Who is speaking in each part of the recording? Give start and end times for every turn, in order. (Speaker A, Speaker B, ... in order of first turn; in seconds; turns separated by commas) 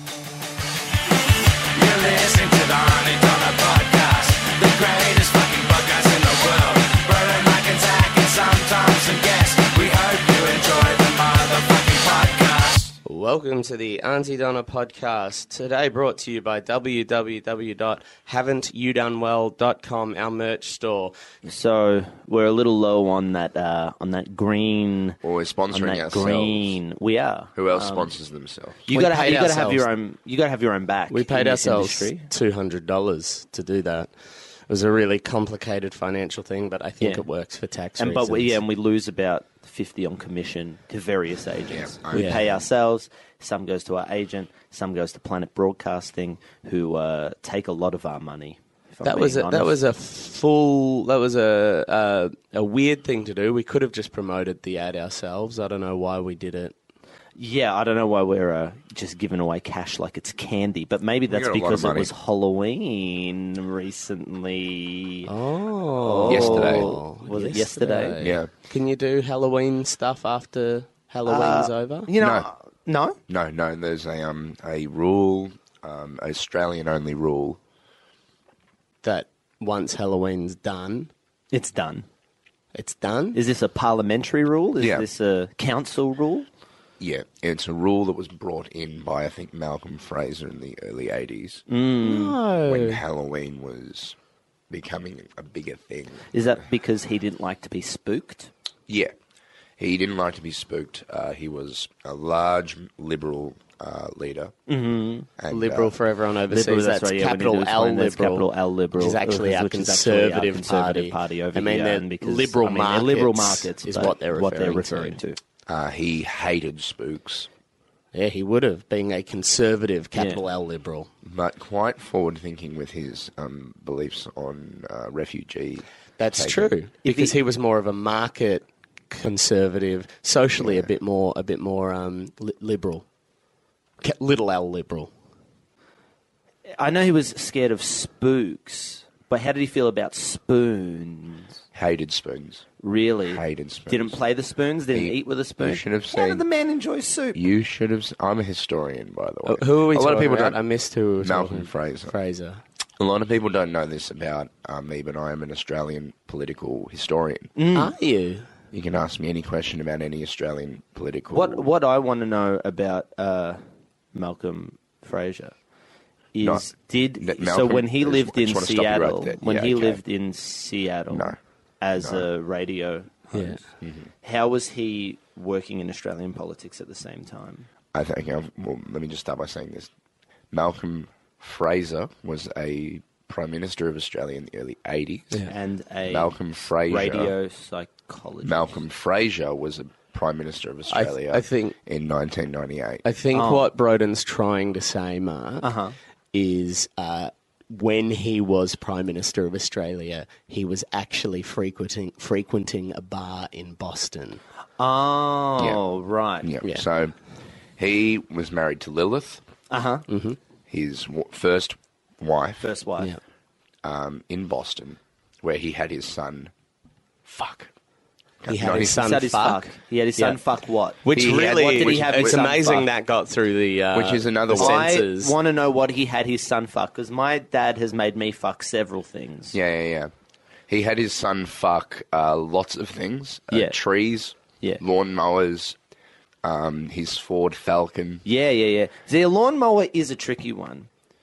Speaker A: 1.8-13.0, Speaker B: 13.1-21.1, Speaker C: 21.4-25.2, Speaker D: 25.2-26.8, Speaker C: 25.7-28.1, Speaker D: 27.6-28.9, Speaker C: 28.9-32.3, Speaker B: 28.9-29.9, Speaker B: 31.1-34.1, Speaker B: 34.7-38.6, Speaker C: 37.0-37.2, Speaker C: 38.0-49.8, Speaker D: 41.7-42.6, Speaker B: 42.1-42.4, Speaker B: 49.0-56.7, Speaker C: 57.4-65.3, Speaker D: 61.3-62.1, Speaker B: 65.3-72.1, Speaker C: 65.9-68.2, Speaker D: 66.3-66.9, Speaker D: 68.2-68.5, Speaker C: 71.3-73.2, Speaker D: 72.2-72.5, Speaker D: 73.3-77.6, Speaker B: 79.0-81.1, Speaker C: 81.5-82.1, Speaker B: 82.8-83.4, Speaker C: 83.3-86.5, Speaker D: 84.8-85.1, Speaker D: 87.0-91.7, Speaker C: 91.7-92.4, Speaker B: 92.0-93.0, Speaker D: 92.7-94.2, Speaker D: 94.7-96.3, Speaker C: 96.3-98.5, Speaker D: 98.9-99.1, Speaker D: 99.8-104.5, Speaker C: 104.7-105.3, Speaker D: 105.4-106.0, Speaker B: 105.5-108.5, Speaker C: 106.5-115.4, Speaker B: 109.0-115.2, Speaker D: 115.7-117.5, Speaker B: 118.1-121.1, Speaker C: 120.1-120.4, Speaker D: 121.2-126.7, Speaker B: 126.2-133.1, Speaker C: 127.0-127.4, Speaker D: 130.6-130.9, Speaker B: 134.0-135.1, Speaker C: 136.8-141.6, Speaker D: 141.7-142.6, Speaker C: 142.8-147.4, Speaker D: 143.3-144.2, Speaker D: 144.9-146.4, Speaker D: 147.3-150.6, Speaker B: 149.5-152.6, Speaker D: 151.2-152.1, Speaker D: 153.0-157.5, Speaker C: 157.6-157.9, Speaker B: 157.7-158.5, Speaker D: 158.7-161.7, Speaker C: 161.3-163.6, Speaker C: 164.1-165.6, Speaker C: 166.3-173.6, Speaker D: 167.2-170.0, Speaker D: 171.1-171.4, Speaker D: 172.0-172.3, Speaker B: 173.3-173.6, Speaker D: 173.8-174.1, Speaker C: 174.2-177.7, Speaker D: 177.9-179.9, Speaker D: 180.5-185.4, Speaker C: 185.5-188.8, Speaker D: 186.1-187.3, Speaker D: 188.4-193.0, Speaker B: 190.9-191.8, Speaker B: 193.1-195.7, Speaker C: 193.3-193.7, Speaker C: 195.6-195.9, Speaker B: 196.3-204.4, Speaker C: 204.8-206.5, Speaker D: 206.4-207.2, Speaker D: 207.8-209.4, Speaker C: 209.7-210.1, Speaker B: 210.1-210.4, Speaker D: 210.7-212.7, Speaker C: 212.6-213.1, Speaker D: 213.8-216.5, Speaker D: 217.3-217.7, Speaker D: 218.4-219.0, Speaker B: 218.5-220.4, Speaker C: 218.7-222.9, Speaker B: 221.0-225.3, Speaker D: 221.1-222.4, Speaker D: 223.9-224.9, Speaker C: 224.5-229.6, Speaker D: 229.5-230.1, Speaker D: 230.7-235.8, Speaker C: 233.5-233.8, Speaker D: 236.4-238.2, Speaker C: 238.2-240.9